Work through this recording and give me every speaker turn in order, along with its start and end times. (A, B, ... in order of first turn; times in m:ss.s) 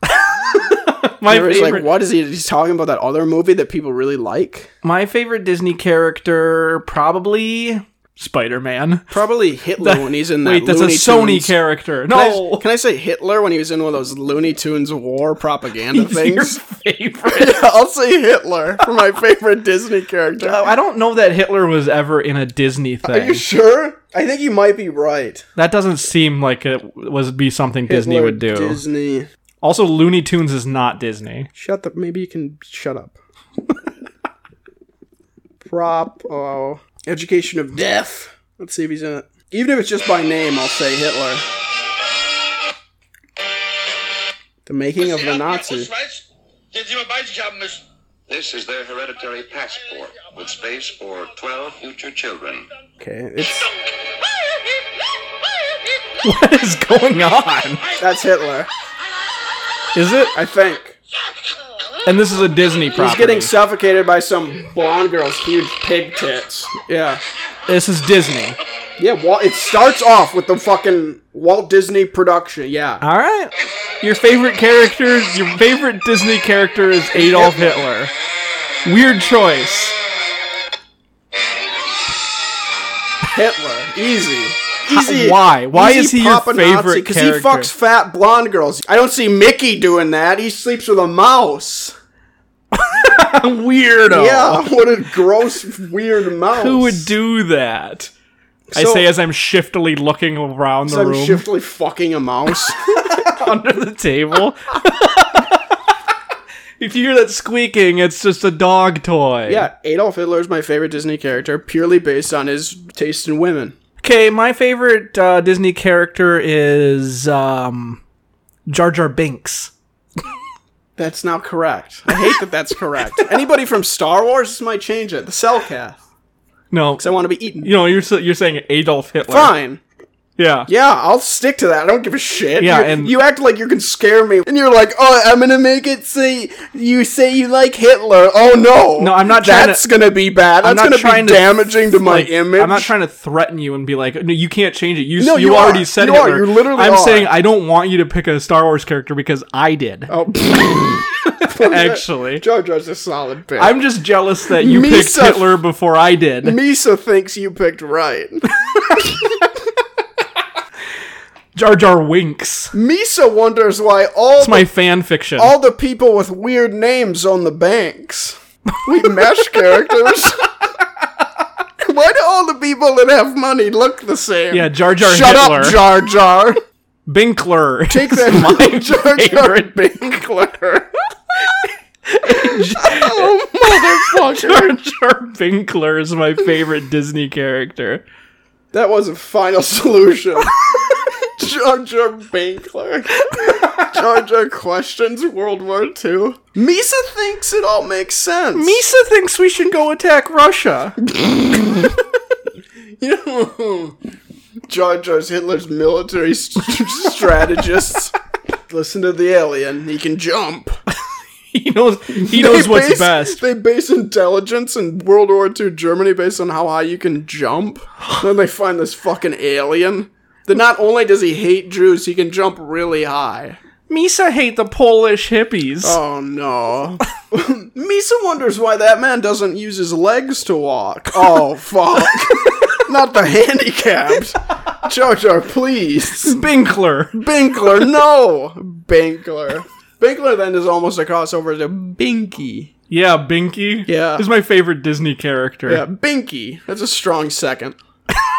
0:00.2-0:01.9 A
0:01.2-0:04.7 B
0:04.8-0:09.1 A
0:09.1-0:11.6 B
0:09.8-0:12.7 A
0:12.1-0:16.6 B
0:15.9-0:17.6 A
0:17.2-0:20.7 B
0:20.4-0:23.4 A
0:23.0-0:25.4 B
0:25.6-0:28.8 A
0:27.9-0:29.3 B
0:29.6-0:31.5 A
0:31.5-0:33.2 B
0:35.6-0:41.4 B
0:44.6-0:45.9 B
0:48.3-0:52.6 C
0:53.0-0:53.7 B
0:56.2-0:57.9 A
0:58.0-0:58.7 B
0:59.9-1:00.3 A
1:00.3-1:01.0 B
1:02.0-1:03.5 A
1:02.9-1:07.2 B
1:07.6-1:08.6 A
1:09.0-1:13.0 B
1:13.0-1:18.1 A
1:17.1-1:17.9 B
1:18.8-1:20.0 A
1:23.3-1:32.0 B
1:24.9-1:27.7 A
1:32.7-1:34.7 A
1:34.1-1:37.1 B
1:36.5-1:38.1 A
1:38.7-1:39.1 B
1:38.7-1:41.4 A
1:40.8-1:42.8 B
1:42.9-1:45.6 A
1:46.8-1:49.7 A
1:49.4-1:53.7 B
1:54.0-1:58.0 A
1:58.7-1:59.7 A
2:01.0-2:06.0 B
2:06.7-2:09.5 A
2:07.0-2:07.7 B
2:09.3-2:09.8 B
2:10.4-2:10.7 A
2:10.7-2:22.9 B
2:12.6-2:13.1 A
2:19.0-2:19.9 A
2:20.6-2:30.1 A
2:25.2-2:27.3 B
2:30.1-2:33.8 B
2:31.4-2:32.4 A
2:33.6-2:36.6 A
2:34.5-2:35.6 B
2:36.4-2:39.2 B
2:41.5-2:42.8 A
2:42.7-2:44.7 B
2:44.4-2:45.5 A
2:45.4-2:50.5 B
2:51.8-2:56.6 B
2:54.5-2:55.8 A
2:57.0-2:59.9 A
2:57.9-3:00.9 B
3:02.0-3:08.0 A
3:02.3-3:04.8 B
3:08.7-3:18.8 B
3:13.3-3:13.8 A
3:18.5-3:21.0 A
3:21.1-3:22.0 B
3:23.0-3:24.0 B
3:24.7-3:28.1 B
3:28.7-3:30.8 B
3:31.5-3:33.4 A
3:32.1-3:43.6 B
3:43.9-3:46.0 A
3:45.8-3:56.5 B
3:56.2-3:57.2 A
3:57.1-4:02.7 B
4:02.9-4:05.8 A
4:03.9-4:04.3 B
4:05.6-4:07.8 B